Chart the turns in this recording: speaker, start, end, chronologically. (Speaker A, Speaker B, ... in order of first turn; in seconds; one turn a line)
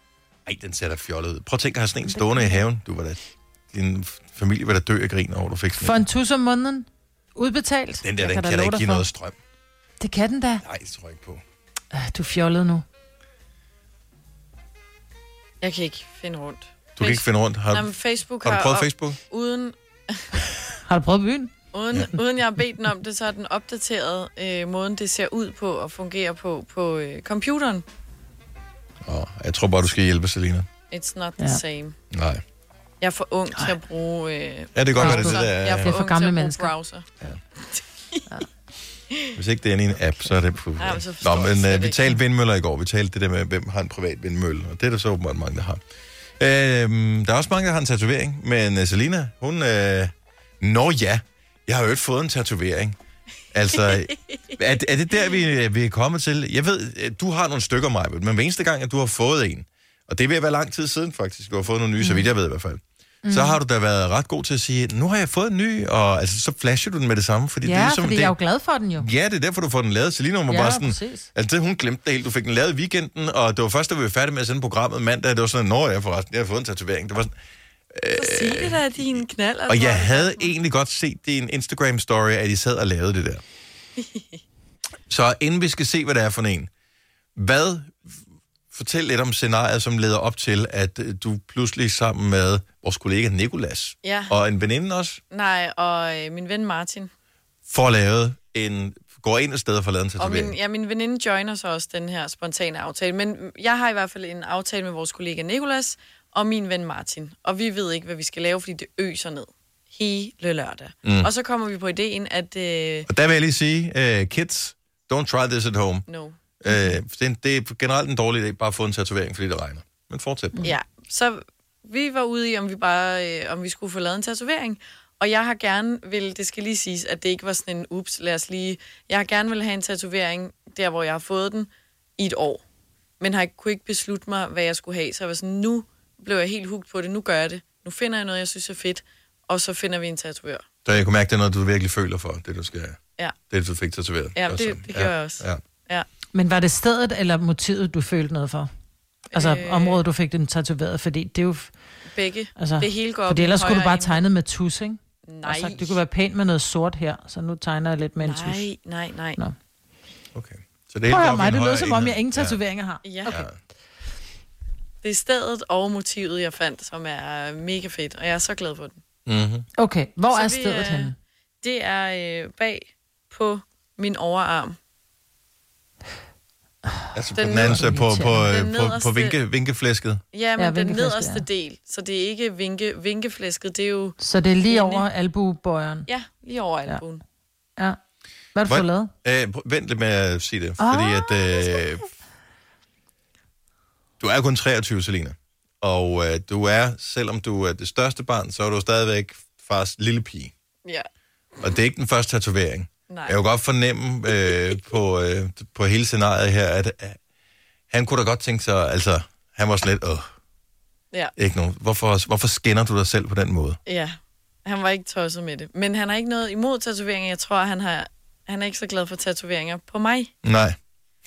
Speaker A: 0.5-6.0
Speaker B: 2.1-2.6
Speaker B: 5.8-9.1
Speaker A: 8.0-9.3
Speaker B: 10.0-10.6
Speaker A: 10.6-11.4
Speaker B: 11.9-12.8
Speaker C: 15.6-20.3
Speaker A: 16.9-17.9
Speaker A: 18.4-19.2
Speaker B: 20.9-21.5
Speaker C: 21.7-27.8
Speaker A: 29.0-30.7
Speaker C: 30.9-32.0
Speaker A: 32.1-32.4
Speaker C: 33.0-37.1
Speaker A: 34.7-35.9
Speaker B: 35.0-36.7
Speaker C: 37.6-38.2
Speaker A: 39.4-45.8
Speaker C: 40.8-42.2
Speaker A: 46.4-53.0
Speaker A: 53.5-68.3
Speaker C: 53.9-54.4
Speaker B: 62.0-62.3
Speaker B: 63.2-63.6
Speaker B: 67.6-69.1
Speaker A: 69.0-77.3
Speaker B: 70.5-71.3
Speaker A: 77.9-83.4
Speaker C: 78.2-80.5
Speaker C: 84.0-84.4
Speaker A: 85.1-86.7
Speaker A: 87.3-88.1
Speaker A: 88.7-95.2
Speaker C: 94.0-94.3
Speaker C: 95.3-97.1
Speaker A: 97.7-100.5
Speaker C: 100.2-113.1
Speaker A: 111.0-111.3
Speaker A: 113.1-116.0
Speaker C: 116.1-116.4
Speaker A: 116.6-120.7
Speaker C: 120.6-132.6
Speaker C: 133.2-140.6
Speaker A: 140.8-143.0
Speaker A: 143.5-145.6
Speaker C: 144.3-146.1
Speaker B: 146.3-148.7
Speaker C: 149.3-150.0
Speaker B: 149.3-151.7
Speaker C: 152.1-154.2
Speaker B: 152.6-158.6
Speaker C: 155.2-156.0
Speaker C: 158.2-159.4
Speaker A: 160.3-162.6
Speaker B: 161.1-163.5
Speaker C: 163.0-163.4
Speaker A: 163.3-163.5
Speaker C: 165.0-169.0
Speaker A: 169.2-169.7
Speaker B: 169.8-171.1
Speaker C: 170.3-174.8
Speaker A: 177.1-180.2
Speaker C: 177.3-177.8
Speaker B: 177.5-178.4
Speaker C: 178.4-179.3
Speaker C: 180.3-184.2
Speaker B: 180.6-181.4
Speaker B: 184.2-186.1
Speaker C: 184.7-185.1
Speaker C: 186.1-187.2
Speaker B: 188.5-189.1
Speaker A: 188.7-192.0
Speaker B: 190.8-191.7
Speaker A: 194.2-200.5
Speaker A: 201.6-207.2
Speaker C: 203.1-203.4
Speaker A: 207.9-210.3
Speaker A: 211.3-213.8
Speaker C: 213.8-220.3
Speaker A: 220.4-220.8